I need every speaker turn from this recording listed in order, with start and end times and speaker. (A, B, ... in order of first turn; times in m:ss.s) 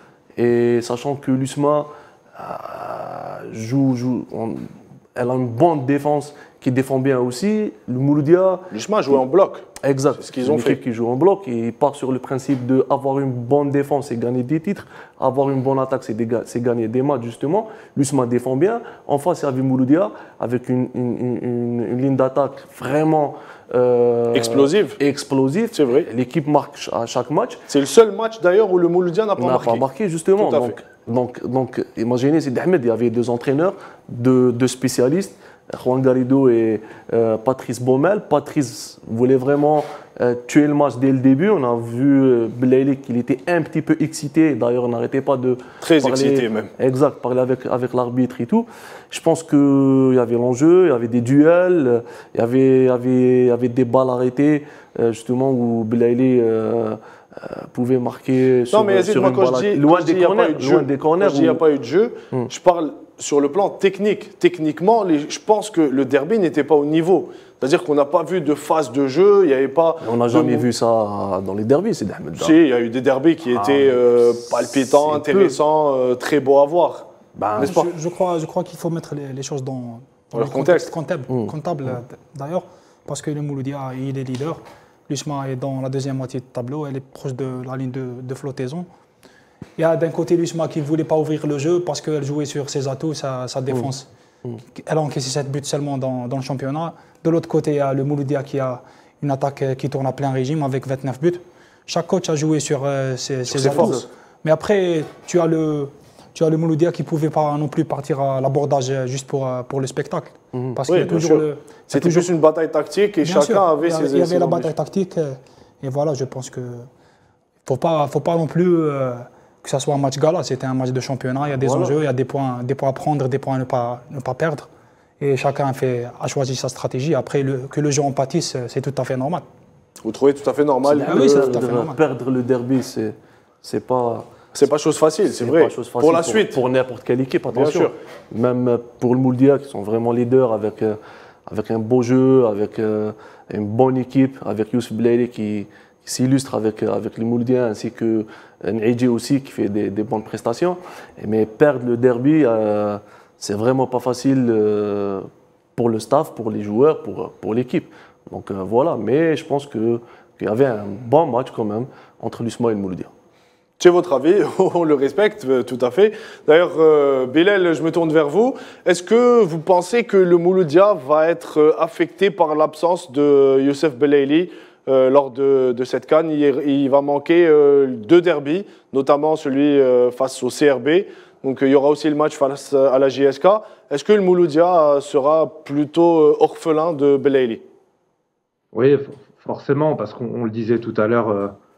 0:00.4-0:09.2 A
0:08.7-0:09.6 B
0:09.8-0:27.6 A
0:10.2-0:10.8 B
0:24.3-0:25.0 B
0:25.7-0:26.0 B
0:27.7-0:29.8 B
0:29.4-1:01.6 A
0:30.4-0:30.8 B
0:45.8-0:46.7 B
0:58.7-1:10.7 B
1:10.0-1:12.6 A
1:12.4-1:17.9 B
1:13.5-1:15.6 A
1:17.4-1:17.8 A
1:17.6-1:28.9 C
1:20.3-1:20.9 B
1:21.3-1:21.9 A
1:29.8-1:34.1 C
1:34.7-1:52.3 C
1:43.5-1:44.0 A
1:43.6-1:44.0 B
1:50.9-1:54.7 B
1:53.2-1:56.9 C
1:57.6-2:04.7 C
2:01.5-2:02.0 A
2:05.2-2:09.4 C
2:10.0-2:11.6 B
2:10.8-2:14.7 A
2:11.0-2:12.0 C
2:14.6-2:16.6 B
2:15.3-2:43.1 A
2:17.5-2:17.9 B
2:43.8-3:07.6 B
3:08.7-3:11.5 D